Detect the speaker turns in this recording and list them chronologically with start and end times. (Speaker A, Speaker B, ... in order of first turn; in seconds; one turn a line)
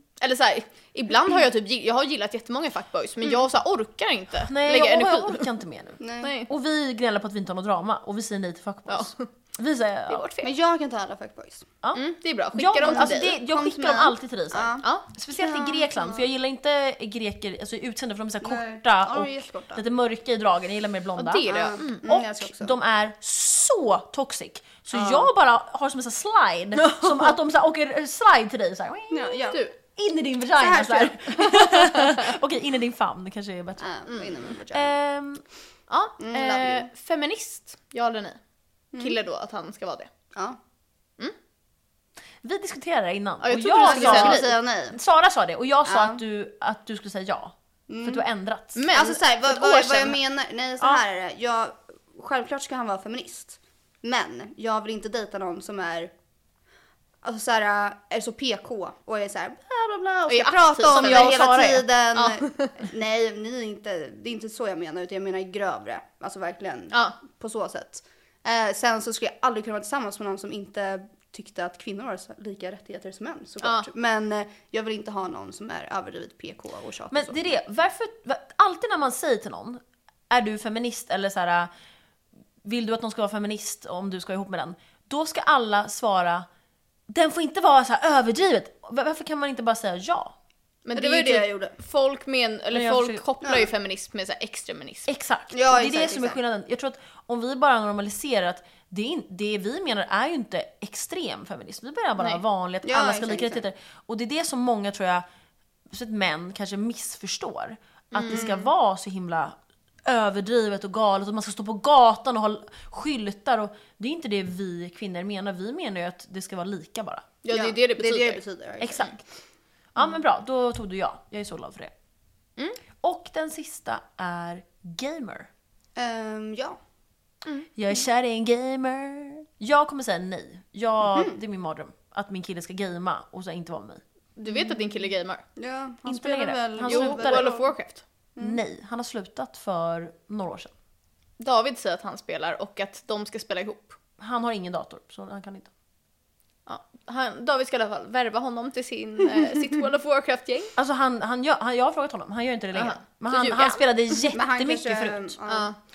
Speaker A: 0.2-5.5
Speaker B: 4.5-10.2
Speaker C: 6.0-6.3
Speaker A: 6.2-6.5
Speaker A: 8.9-9.3
Speaker A: 10.1-10.5
Speaker C: 10.4-11.7
Speaker B: 11.8-34.0
Speaker A: 11.9-13.3
Speaker C: 12.8-16.3
Speaker A: 14.8-15.1
Speaker C: 18.4-19.8
Speaker A: 21.2-22.0
Speaker C: 21.5-22.8
Speaker A: 25.0-25.2
Speaker A: 26.8-27.1
Speaker C: 29.1-29.6
Speaker C: 30.6-31.7
Speaker C: 33.8-35.0
Speaker B: 34.6-35.4
Speaker A: 35.9-38.4
Speaker C: 36.2-36.9
Speaker C: 38.9-39.2
Speaker A: 39.0-40.1
Speaker C: 40.3-40.6
Speaker B: 42.4-48.8
Speaker A: 43.4-44.4
Speaker C: 43.8-45.0
Speaker C: 45.9-46.2
Speaker C: 47.9-48.2
Speaker A: 48.8-50.2
Speaker C: 48.9-56.1
Speaker C: 57.2-77.6
Speaker A: 60.3-61.5
Speaker B: 60.9-61.9
Speaker A: 62.1-62.8
Speaker A: 66.9-67.2
Speaker A: 73.6-73.9
Speaker B: 77.1-81.7
Speaker B: 82.7-86.5
Speaker B: 87.1-90.3
Speaker A: 90.8-95.1
Speaker C: 90.9-91.8
Speaker B: 92.7-93.2
Speaker C: 93.4-93.7
Speaker B: 95.1-105.2
Speaker C: 95.5-96.4
Speaker C: 102.8-103.6
Speaker B: 105.9-117.3
Speaker A: 108.1-108.5
Speaker C: 108.3-108.7
Speaker A: 117.4-118.4
Speaker C: 117.5-119.2
Speaker B: 118.8-119.2
Speaker B: 120.0-121.9
Speaker B: 123.0-125.5
Speaker C: 126.0-126.8
Speaker B: 127.8-134.0
Speaker C: 131.1-131.4
Speaker A: 134.4-135.4
Speaker C: 135.6-137.7
Speaker B: 136.1-137.6
Speaker A: 136.8-138.0
Speaker C: 138.4-138.6
Speaker B: 138.4-140.7
Speaker A: 141.4-144.0
Speaker B: 144.2-145.7
Speaker A: 146.7-150.7
Speaker B: 150.8-155.4
Speaker A: 152.7-154.2
Speaker C: 154.3-155.7
Speaker A: 155.5-155.8